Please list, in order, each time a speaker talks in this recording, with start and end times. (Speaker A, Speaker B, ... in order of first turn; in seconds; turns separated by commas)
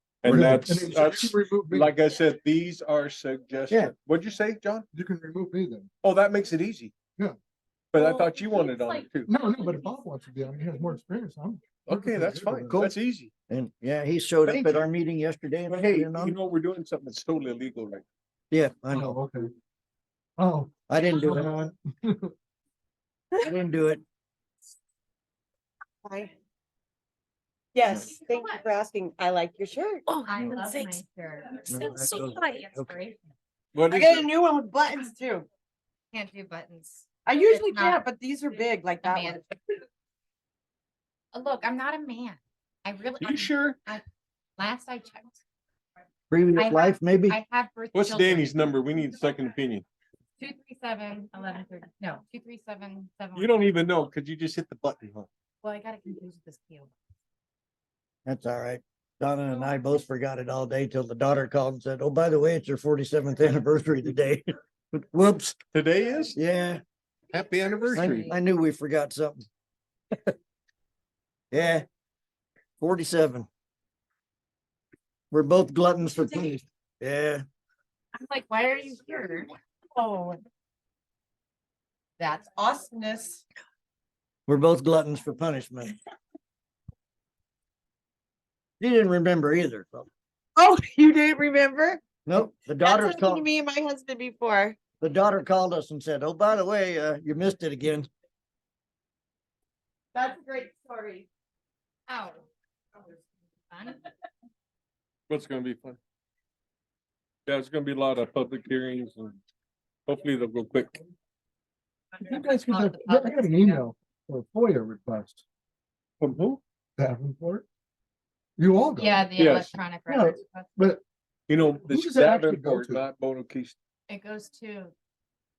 Speaker A: 0.2-4.9, Speaker B: 0.2-1.9, Speaker B: 4.9-5.9, Speaker A: 6.0-6.9, Speaker A: 7.9-9.3, Speaker B: 9.2-12.8, Speaker A: 11.8-13.3, Speaker C: 13.5-16.4, Speaker A: 14.4-14.8, Speaker A: 15.7-18.0, Speaker C: 18.5-19.2, Speaker B: 18.9-19.5, Speaker B: 20.4-22.3, Speaker C: 20.9-21.5, Speaker C: 23.4-24.0, Speaker D: 27.7-30.0, Speaker E: 27.9-31.0, Speaker F: 30.2-33.3, Speaker C: 31.7-32.9, Speaker E: 31.8-32.6, Speaker A: 33.7-34.3, Speaker D: 33.9-35.5, Speaker E: 35.0-35.4, Speaker F: 36.1-38.0, Speaker D: 37.3-39.4, Speaker E: 37.7-38.1, Speaker F: 39.0-39.4, Speaker F: 41.3-44.0, Speaker A: 43.2-43.8, Speaker F: 44.6-45.4, Speaker C: 46.3-47.4, Speaker F: 46.5-48.5, Speaker A: 47.9-49.9, Speaker F: 50.4-53.5, Speaker A: 53.4-55.3, Speaker F: 55.6-56.9, Speaker C: 58.2-65.6, Speaker A: 65.7-66.3, Speaker C: 66.3-66.8, Speaker A: 67.3-68.3, Speaker C: 67.9-69.4, Speaker C: 71.5-71.8, Speaker C: 72.8-73.5, Speaker C: 75.3-77.4, Speaker F: 78.1-79.5, Speaker D: 82.5-83.4, Speaker C: 84.5-85.9, Speaker C: 88.8-90.1, Speaker D: 90.6-92.0, Speaker C: 92.2-93.5, Speaker D: 92.8-94.8, Speaker C: 95.0-98.1, Speaker D: 100.4-100.9, Speaker F: 102.1-102.4, Speaker F: 103.7-104.0, Speaker A: 105.3-106.0, Speaker A: 107.5-109.4, Speaker A: 110.1-111.0, Speaker F: 112.2-113.8, Speaker B: 112.2-115.4, Speaker A: 116.2-116.6, Speaker B: 117.0-117.6, Speaker B: 118.6-119.3, Speaker F: 119.0-120.7, Speaker A: 119.4-119.7, Speaker B: 120.1-121.0, Speaker A: 121.5-123.8, Speaker B: 121.7-123.0, Speaker F: 124.1-124.9